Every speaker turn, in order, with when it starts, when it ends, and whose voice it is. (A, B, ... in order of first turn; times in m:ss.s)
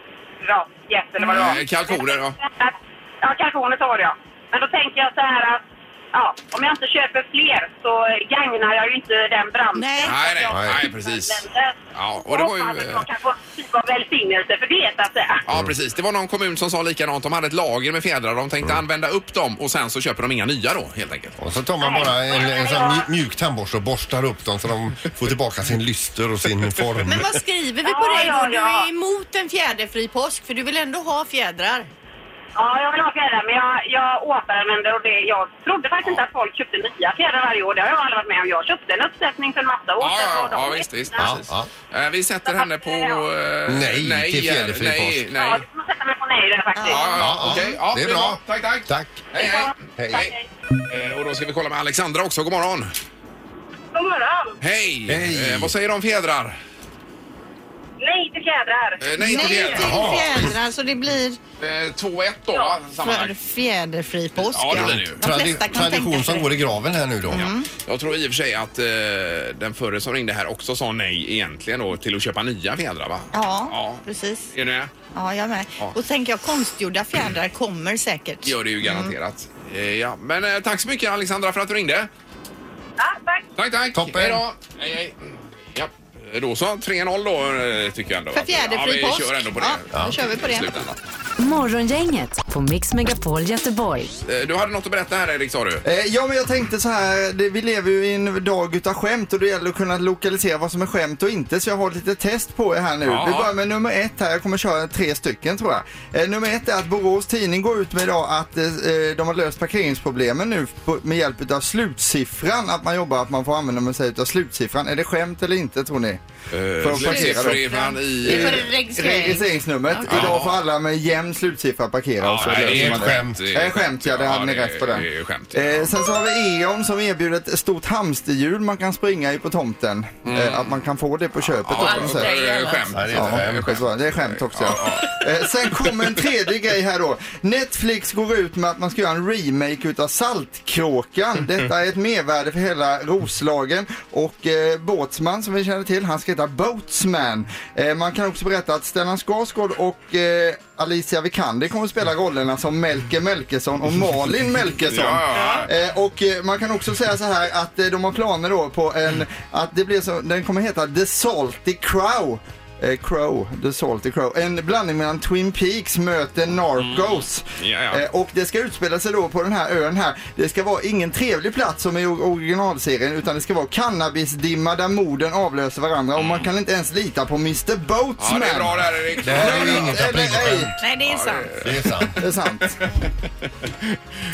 0:00.4-0:05.6 A
0:01.3-0:02.4 B
0:06.1-0:15.4 A
0:09.8-0:10.2 C
0:10.0-0:13.1 B
0:10.5-0:10.8 D
0:15.5-0:21.4 B
0:15.5-0:15.8 D
0:21.4-0:27.3 D
0:21.8-0:23.1 A
0:27.1-0:31.9 C
0:27.8-0:28.9 A
0:32.6-0:41.4 A
0:40.0-0:45.6 B
0:41.2-0:41.7 D
0:42.4-0:43.2 A
0:43.7-0:45.3 D
0:45.4-0:47.3 A
0:46.8-0:47.0 C
0:46.9-0:50.3 B
0:47.2-0:49.3 D
0:49.4-0:50.4 A
0:50.0-0:50.3 D
0:50.9-0:52.9 B
0:53.9-0:54.6 A
0:54.6-0:56.6 B
0:55.1-0:55.7 D
0:58.0-0:59.8 A
0:59.0-1:00.3 B
0:59.2-1:01.4 C
0:59.7-1:00.5 D
1:01.6-1:03.4 B
1:03.0-1:06.5 C
1:04.5-1:05.2 B
1:04.7-1:07.5 D
1:07.3-1:07.7 C
1:07.4-1:14.9 B
1:13.3-1:14.5 C
1:15.1-1:19.1 C
1:18.4-1:22.1 B
1:23.0-1:23.5 A
1:23.6-1:31.0 B
1:23.9-1:24.4 D
1:28.4-1:30.7 C
1:31.4-1:34.1 E
1:34.2-1:35.8 B
1:35.8-1:56.2 F
1:43.0-1:43.5 B
1:56.5-1:58.7 B
1:56.8-2:12.3 F
1:57.0-2:00.4 C
2:00.1-2:00.6 B
2:02.2-2:05.9 B
2:02.4-2:03.4 D
2:10.2-2:10.8 B
2:11.6-2:15.2 B
2:11.8-2:12.8 C
2:12.9-2:13.8 D
2:13.1-3:00.7 F
2:34.9-2:35.7 B
2:46.8-2:48.0 B
2:56.2-2:56.5 B
2:58.2-3:00.0 B
2:59.2-3:00.8 D
3:00.8-3:01.5 C
3:01.0-3:02.1 B
3:01.6-3:02.2 D
3:02.2-3:02.8 F